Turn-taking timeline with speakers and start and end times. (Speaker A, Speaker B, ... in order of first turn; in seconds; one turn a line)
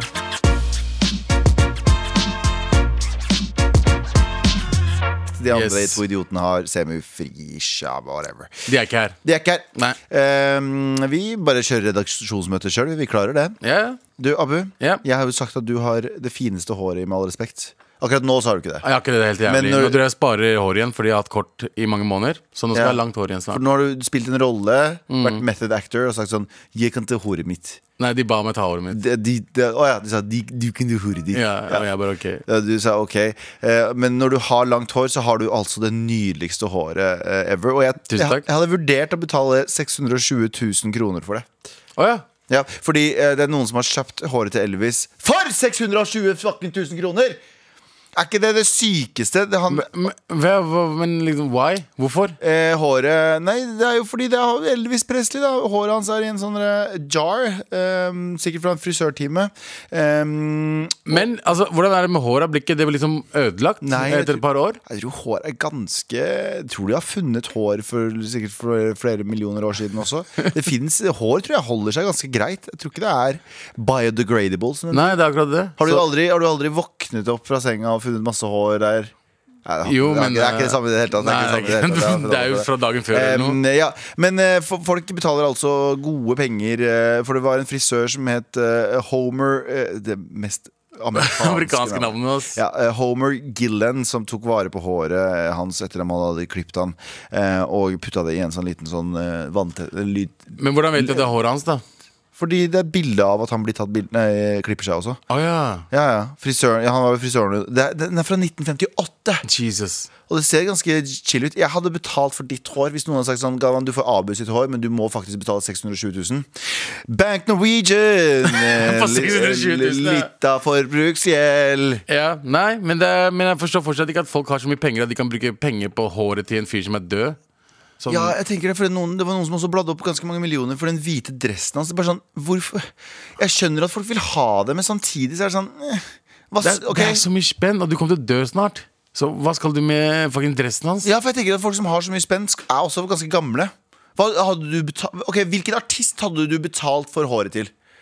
Speaker A: 5.4-8.5
Speaker B: 5.5-6.0
Speaker B: 8.7-9.2
Speaker A: 9.2-13.6
Speaker B: 13.6-14.0
Speaker A: 14.2-18.8
Speaker B: 18.8-23.6
Speaker A: 19.4-20.0
Speaker A: 22.7-23.0
Speaker A: 23.5-27.8
Speaker B: 25.1-25.4
Speaker B: 28.0-29.0
Speaker A: 28.9-31.9
Speaker B: 31.3-32.4
Speaker A: 32.5-41.5
Speaker B: 38.1-38.4
Speaker B: 42.0-42.2
Speaker A: 42.5-47.4
Speaker A: 48.1-49.9
Speaker B: 49.7-52.4
Speaker A: 52.4-61.2
Speaker B: 61.1-64.8
Speaker A: 63.8-75.2
Speaker B: 74.9-76.1
Speaker A: 75.8-79.1
Speaker A: 79.7-101.3
Speaker B: 79.8-83.6
Speaker B: 91.1-92.6
Speaker B: 100.6-101.8
Speaker A: 102.4-105.2
Speaker B: 105.3-105.8
Speaker A: 105.9-109.4
Speaker B: 109.4-110.1
Speaker A: 110.3-122.0
Speaker B: 118.5-120.3
Speaker B: 122.1-127.4
Speaker B: 128.0-128.3
Speaker A: 128.1-137.2
Speaker B: 136.6-141.1
Speaker A: 141.0-147.7